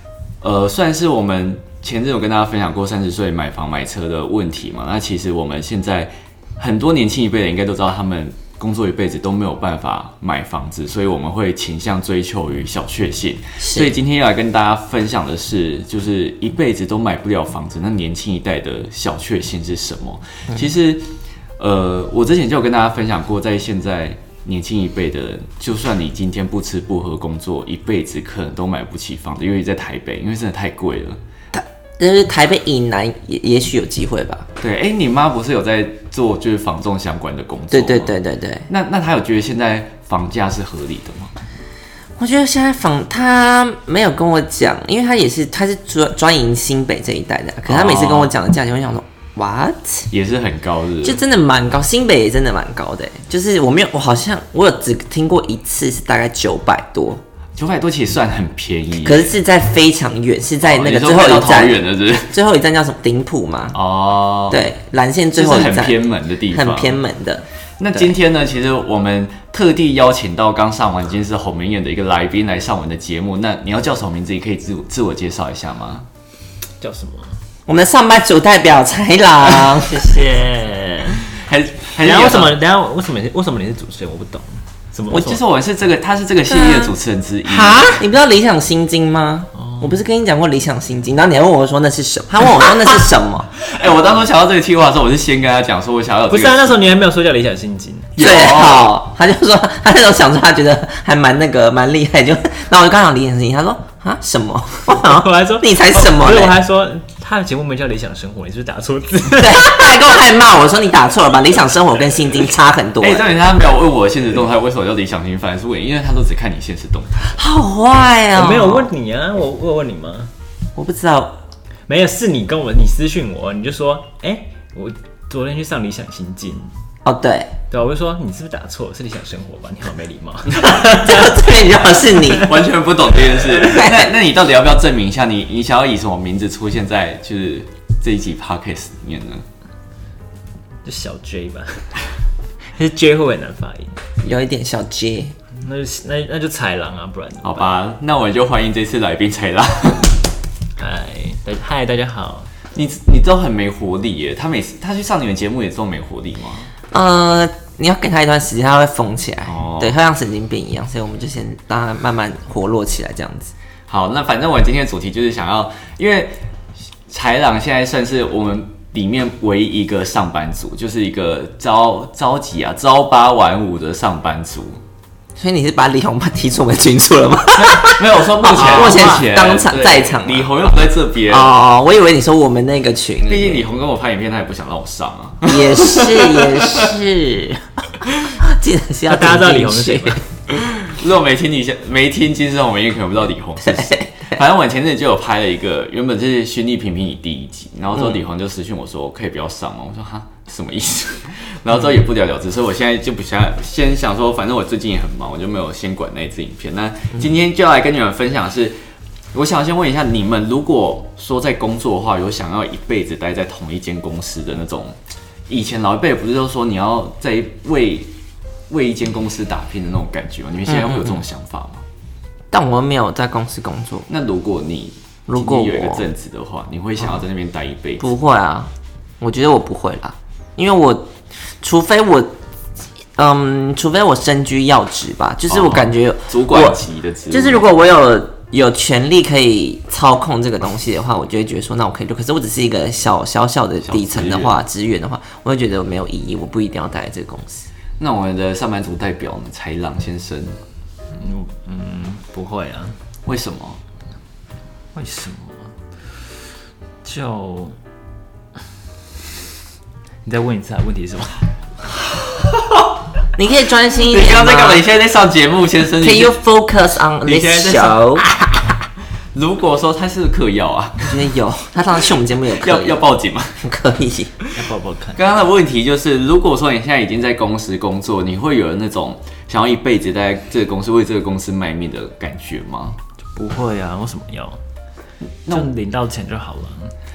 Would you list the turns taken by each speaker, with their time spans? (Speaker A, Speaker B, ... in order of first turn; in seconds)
Speaker A: 0.4-21.1, 21.6-31.2, 34.6-38.1, 38.7-41.3, 47.7-48.3, 50.1-51.2, 57.6-59.3, 60.6-62.4, 63.7-64.6, 65.3-66.9, 67.8-76.0, 81.3-82.5, 85.1-88.0, 93.6-96.8, 98.2-98.9, 113.0-117.4, 132.4-139.4, 147.4-150.2, 152.7-156.7, 159.5-159.9, 163.9-166.3, 167.1-174.8, 177.5-181.5, 183.3-187.0, 188.1-188.3, 190.5-208.8, 209.3-214.9, 215.5-218.1, 218.7-221.8, 224.1-228.1, 235.5-237.7, 243.8-244.6, 248.0-250.6, 253.2-253.8, 262.4-262.9, 264.0-266.4, 267.2-268.8, 269.3-271.3, 272.6-273.6, 275.1-283.0
Speaker B: 13.6-13.9, 31.5-34.5, 37.7-38.7, 42.2-50.1, 51.0-57.2, 59.0-61.8, 62.3-63.8, 64.5-66.0, 66.5-68.1, 77.7-80.2, 86.5-86.9, 87.5-93.5, 98.2-106.5, 109.3-113.2, 117.3-118.9, 120.8-121.4, 127.0-127.5, 130.7-132.5, 133.6-134.1, 144.2-145.3, 156.9-163.5, 175.4-180.8, 181.3-183.7, 185.4-187.7, 188.4-190.2, 193.6-194.3, 220.7-221.2, 222.5-224.1, 225.3-226.1, 228.0-232.3, 233.2-247.7, 263.4-264.8, 266.0-268.2, 271.1-273.0, 273.6-274.3
Speaker C: 76.8-77.4, 79.9-81.2, 82.0-85.4, 89.5-89.9, 96.3-98.1, 104.9-110.1, 118.3-120.3, 121.9-126.7, 127.7-131.4, 140.8-141.9, 142.7-144.0, 145.5-147.8, 150.8-152.5, 178.6-179.2, 189.1-190.2, 251.1-253.0, 254.9-255.7, 257.0-257.8, 260.2-261.4, 274.5-275.2, 283.3-284.6, 285.5-286.9